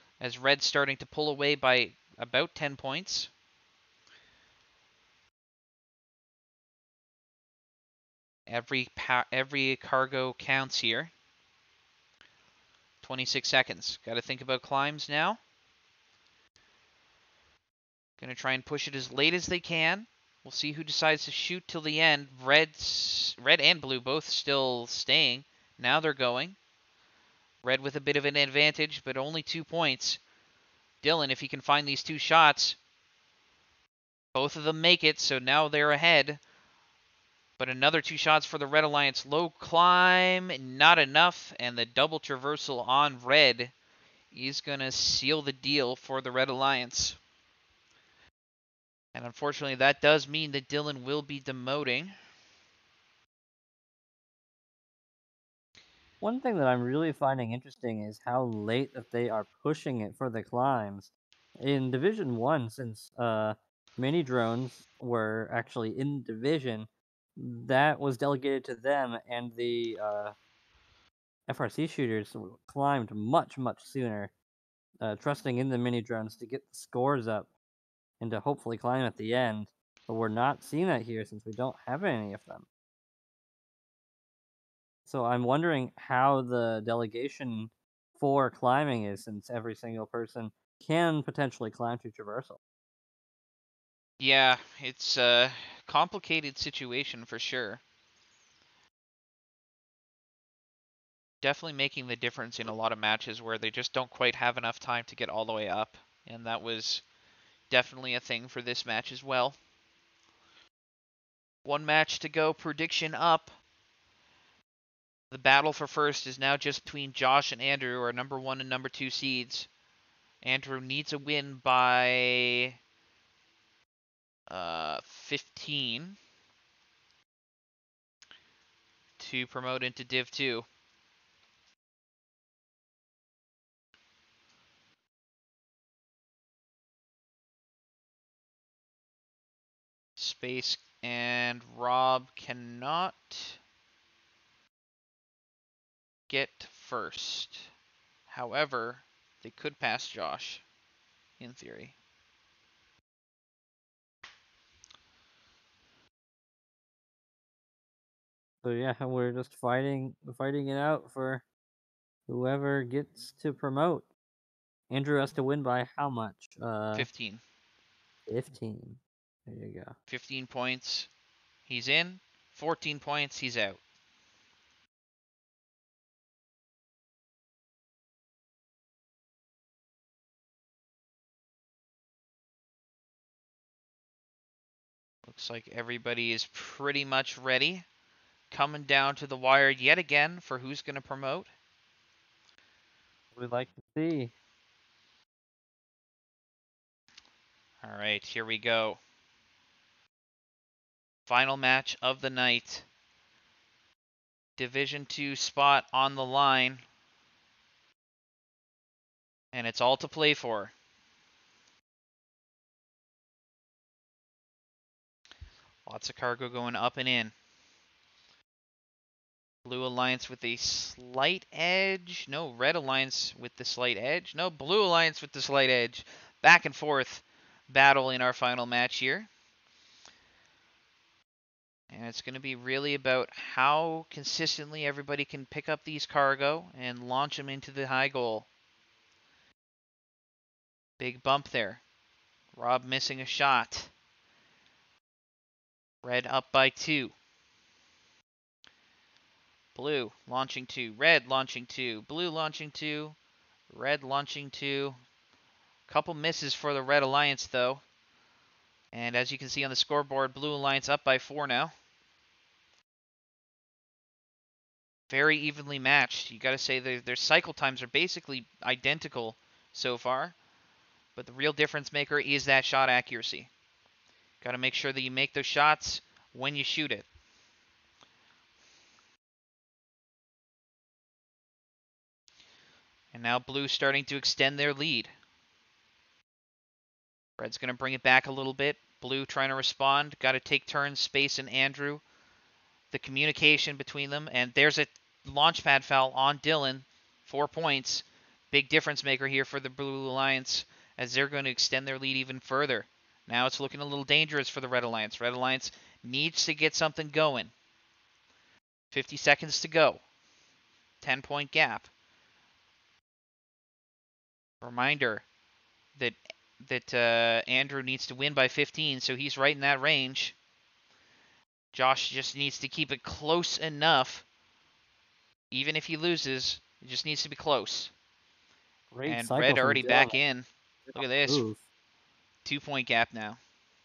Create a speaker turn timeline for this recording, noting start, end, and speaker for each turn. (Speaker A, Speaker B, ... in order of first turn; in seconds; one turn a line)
Speaker A: 0.2-3.3
Speaker A: 8.5-11.1
Speaker A: 13.0-15.4
Speaker A: 18.2-26.6
Speaker A: 27.6-30.2
Speaker A: 31.0-32.8
Speaker A: 34.3-36.4
Speaker A: 37.6-43.7
Speaker A: 44.3-47.2
Speaker A: 49.1-52.1
Speaker B: 56.2-70.3
Speaker B: 71.5-74.3
Speaker B: 75.0-77.5
Speaker B: 78.2-82.7
Speaker B: 85.1-92.6
Speaker A: 94.2-97.8
Speaker A: 101.4-107.0
Speaker A: 107.7-109.6
Speaker A: 111.7-113.6
Speaker A: 115.3-119.7
Speaker A: 120.4-122.8
Speaker A: 124.5-126.2
Speaker A: 129.2-130.7
Speaker A: 140.2-143.6
Speaker A: 146.3-147.7
Speaker A: 148.3-150.6
Speaker A: 151.4-151.9
Speaker B: 158.6-161.4
Speaker B: 162.3-164.1
Speaker B: 164.9-167.1
Speaker A: 166.9-167.4
Speaker B: 168.3-169.9
Speaker A: 170.1-171.1
Speaker A: 171.7-173.8
Speaker A: 185.3-187.8
Speaker A: 188.5-191.5
Speaker B: 193.3-194.3
Speaker A: 197.8-199.0
Speaker A: 201.3-202.9
Speaker A: 204.6-206.8
Speaker A: 209.5-210.7
Speaker A: 215.9-217.3
Speaker A: 219.7-229.3
Speaker A: 231.9-238.5
Speaker A: 241.0-241.8
Speaker A: 242.5-243.9
Speaker A: 246.0-247.1
Speaker A: 249.8-253.2
Speaker A: 253.7-255.0
Speaker A: 255.9-257.8
Speaker A: 258.9-261.7
Speaker A: 265.1-270.4
Speaker A: 271.2-273.5
Speaker A: 274.4-277.1
Speaker A: 283.1-285.1
Speaker A: 287.4-292.0
Speaker A: 292.9-307.5
Speaker A: 308.9-310.0
Speaker A: 311.0-311.9
Speaker A: 314.6-315.2
Speaker A: 316.0-320.4
Speaker A: 321.7-324.2
Speaker A: 325.5-327.9
Speaker B: 328.9-330.2
Speaker A: 329.1-331.4
Speaker B: 330.9-331.6
Speaker A: 332.4-333.4